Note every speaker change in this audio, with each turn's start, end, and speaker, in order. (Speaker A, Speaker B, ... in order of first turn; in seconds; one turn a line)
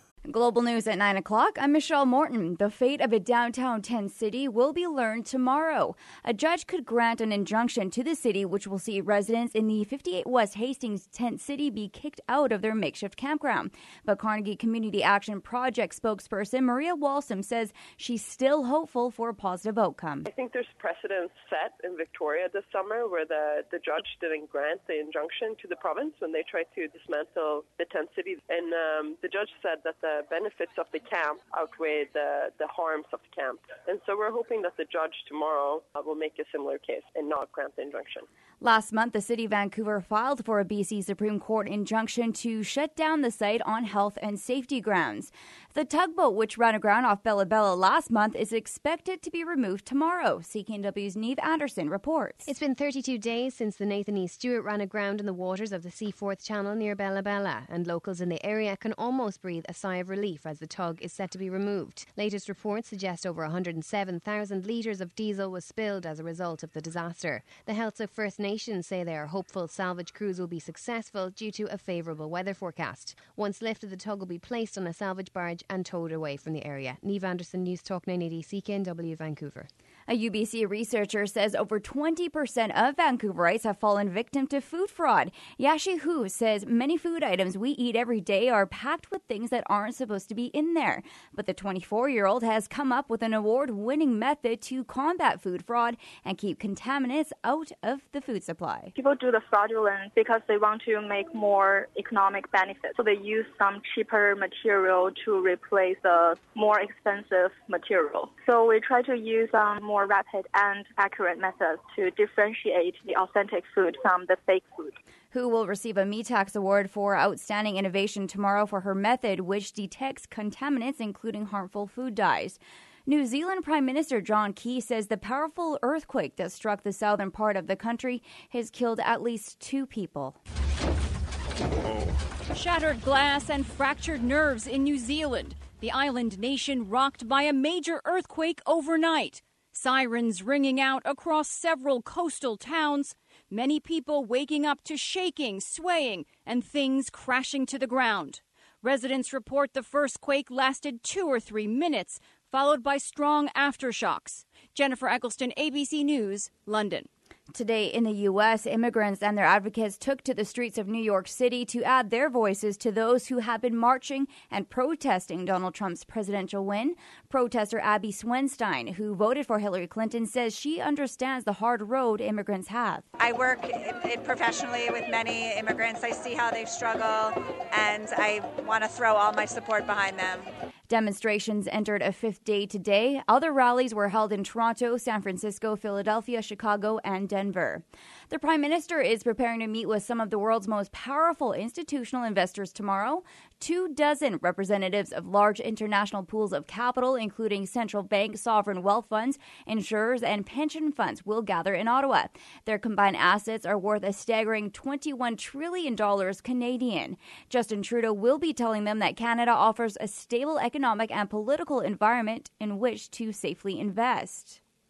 Speaker A: 0.3-20.3
Speaker B: 20.3-38.3
Speaker A: 38.6-52.5
Speaker C: 52.4-79.7
Speaker A: 80.1-98.9
Speaker D: 98.9-115.0
Speaker A: 115.3-130.4
Speaker E: 132.5-157.1
Speaker A: 157.5-173.0
Speaker F: 173.2-180.5
Speaker A: 180.9-214.6